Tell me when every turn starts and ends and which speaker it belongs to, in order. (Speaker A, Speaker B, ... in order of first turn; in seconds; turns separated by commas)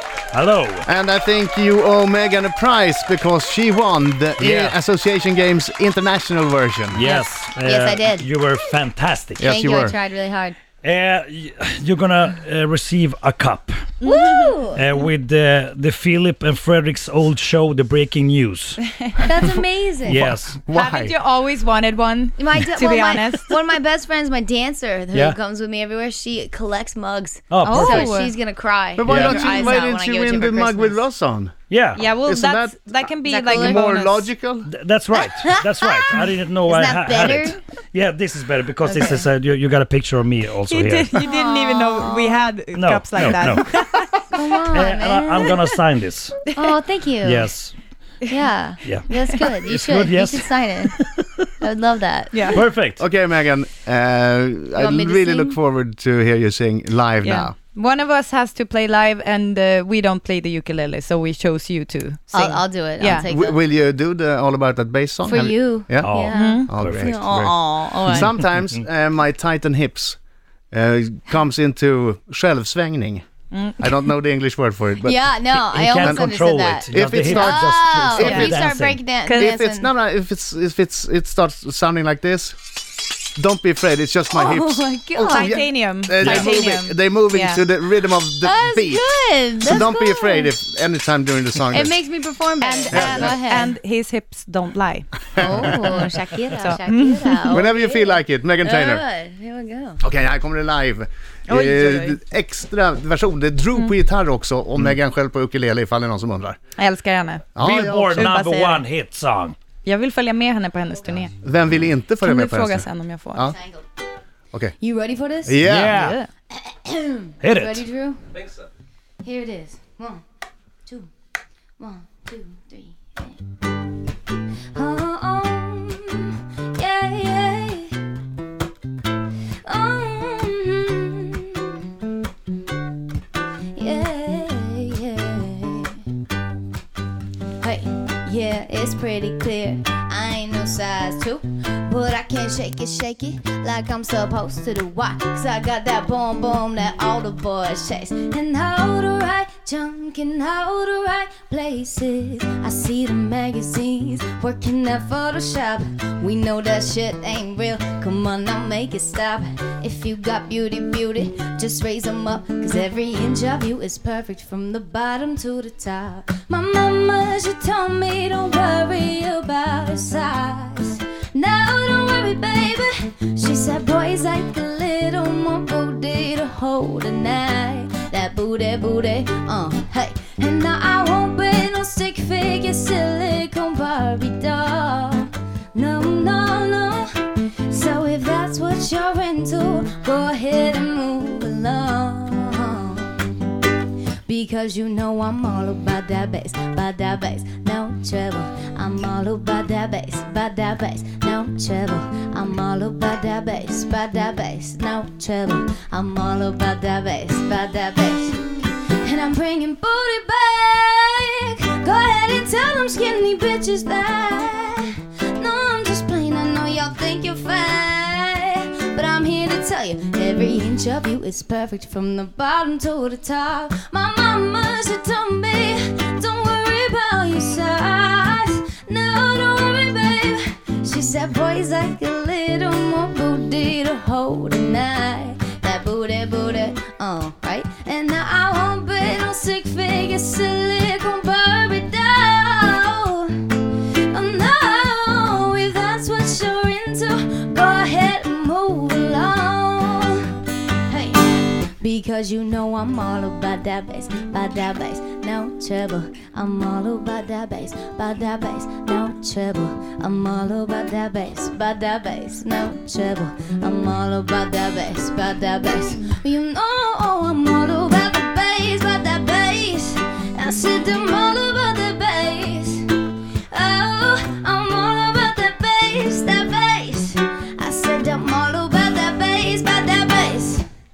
Speaker A: 0.3-0.8, Speaker B: 0.8-7.0, Speaker A: 4.4-4.8, Speaker A: 6.9-9.5, Speaker C: 7.0-8.3, Speaker B: 9.4-10.0, Speaker C: 9.4-10.6, Speaker A: 10.8-13.8, Speaker C: 14.0-14.8, Speaker D: 14.0-14.6, Speaker A: 14.7-18.8, Speaker C: 19.2-20.3, Speaker A: 20.1-20.6, Speaker B: 20.1-21.1, Speaker D: 20.7-23.6, Speaker C: 22.4-31.0, Speaker A: 27.5-28.2, Speaker D: 27.6-28.3, Speaker B: 29.0-34.7, Speaker A: 29.0-29.5, Speaker A: 31.7-32.0, Speaker D: 32.0-34.3, Speaker C: 33.2-33.9, Speaker A: 34.7-41.2, Speaker C: 35.1-37.6, Speaker C: 38.9-39.2, Speaker D: 40.7-44.2, Speaker C: 41.1-42.5, Speaker A: 42.7-43.6, Speaker C: 44.2-45.6, Speaker A: 44.4-46.5, Speaker C: 46.5-47.5, Speaker A: 47.2-47.8, Speaker C: 48.3-51.0, Speaker A: 48.8-51.4, Speaker C: 51.6-52.6, Speaker A: 52.5-53.0, Speaker B: 53.0-57.5, Speaker C: 54.8-55.6, Speaker D: 57.2-63.3, Speaker C: 62.3-63.6, Speaker B: 63.0-70.2, Speaker C: 65.2-68.3, Speaker A: 66.0-67.2, Speaker D: 66.3-66.7, Speaker A: 68.1-68.8, Speaker B: 70.7-73.2, Speaker D: 73.5-73.9, Speaker B: 73.8-75.2, Speaker C: 75.0-79.9, Speaker A: 75.5-79.1, Speaker B: 76.0-76.3, Speaker B: 76.9-78.7, Speaker D: 79.2-79.5, Speaker B: 79.3-82.6, Speaker B: 83.4-89.1, Speaker C: 84.3-85.8, Speaker D: 85.3-87.6, Speaker A: 86.2-86.7, Speaker C: 88.4-90.5, Speaker B: 89.6-91.9, Speaker C: 91.7-93.7, Speaker D: 92.6-95.6, Speaker B: 92.9-93.5, Speaker C: 95.4-100.0, Speaker B: 95.4-95.7, Speaker D: 96.6-97.6, Speaker B: 97.5-99.0, Speaker B: 100.0-106.6, Speaker D: 101.5-102.2, Speaker D: 106.8-107.5, Speaker B: 107.5-108.3, Speaker A: 107.6-109.6, Speaker D: 108.1-108.9, Speaker D: 109.8-111.4, Speaker B: 111.4-113.6, Speaker D: 112.2-113.5, Speaker C: 113.5-113.8, Speaker C: 114.8-115.6, Speaker B: 115.5-116.0, Speaker A: 115.6-116.2, Speaker D: 115.8-116.3, Speaker C: 116.7-118.5, Speaker A: 117.4-117.8, Speaker C: 119.2-120.2, Speaker C: 121.8-123.4, Speaker C: 124.7-128.1, Speaker C: 129.7-131.8, Speaker C: 133.8-136.0, Speaker C: 137.6-193.3, Speaker C: 194.3-250.3, Speaker C: 250.9-280.7